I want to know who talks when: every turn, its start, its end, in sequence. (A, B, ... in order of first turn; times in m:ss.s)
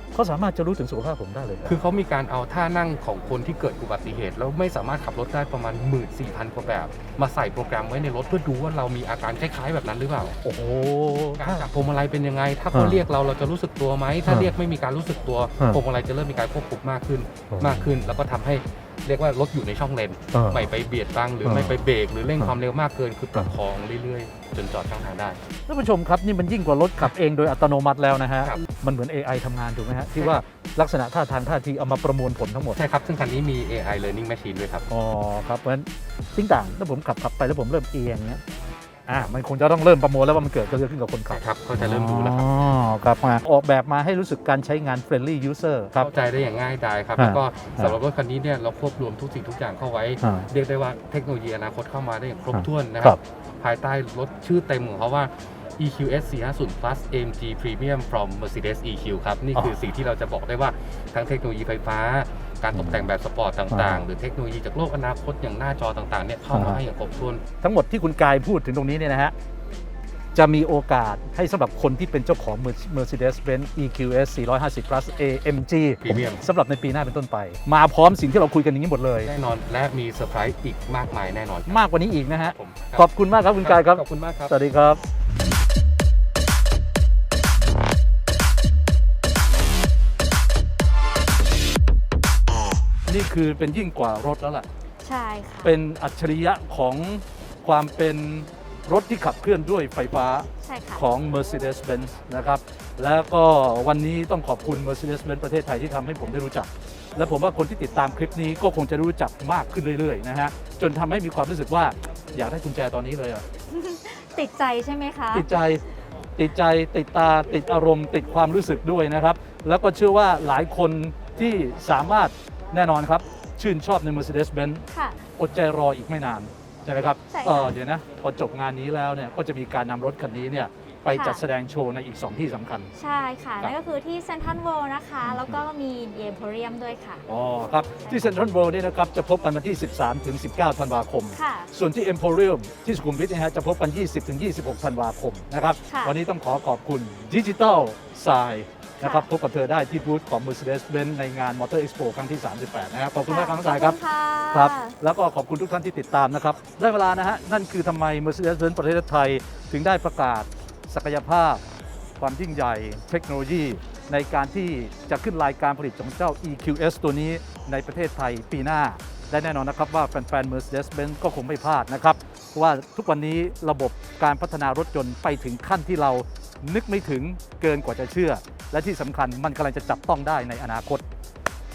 0:00.2-0:01.8 A
0:01.6-0:10.4 B
0:10.4-0:11.7 A
0:11.4-0:25.4 B
0:12.7-0:13.0 A
0:14.3-0:14.5 A
0:17.5-0:18.1 A
0:20.3-0:20.7 A
0:21.4-0:22.6 A
0:25.7-0:32.8 A
0:30.2-0:30.4 B
0:32.7-0:34.9 B
0:34.9-0:38.4 A
0:39.1-0:46.1 A
0:41.3-0:42.5 B
0:46.0-1:07.4 B
0:47.2-0:48.0 A
0:50.2-0:50.5 A
0:52.5-0:53.2 A
1:02.8-1:03.1 A
1:03.7-1:04.1 A
1:06.5-1:06.8 A
1:07.6-1:09.3 A
1:10.4-1:19.3 A
1:16.0-1:16.4 B
1:19.2-1:24.6 B
1:21.7-1:25.0 A
1:33.1-1:34.7 A
1:35.0-1:35.7 C
1:35.6-1:53.4 A
1:40.6-1:41.1 C
1:53.7-1:55.5 C
1:55.3-1:55.8 A
1:56.4-2:04.8 A
2:04.9-2:05.2 C
2:05.4-2:12.9 A
2:07.3-2:07.7 C
2:11.1-2:11.4 C
2:13.0-2:17.2 C
2:15.2-2:15.6 A
2:17.3-2:34.0 A
2:18.0-2:18.4 C
2:21.3-2:21.7 C
2:25.9-2:26.2 C
2:29.0-2:29.3 C
2:33.3-2:35.0 C
2:34.5-2:41.6 A
2:42.2-3:01.0 A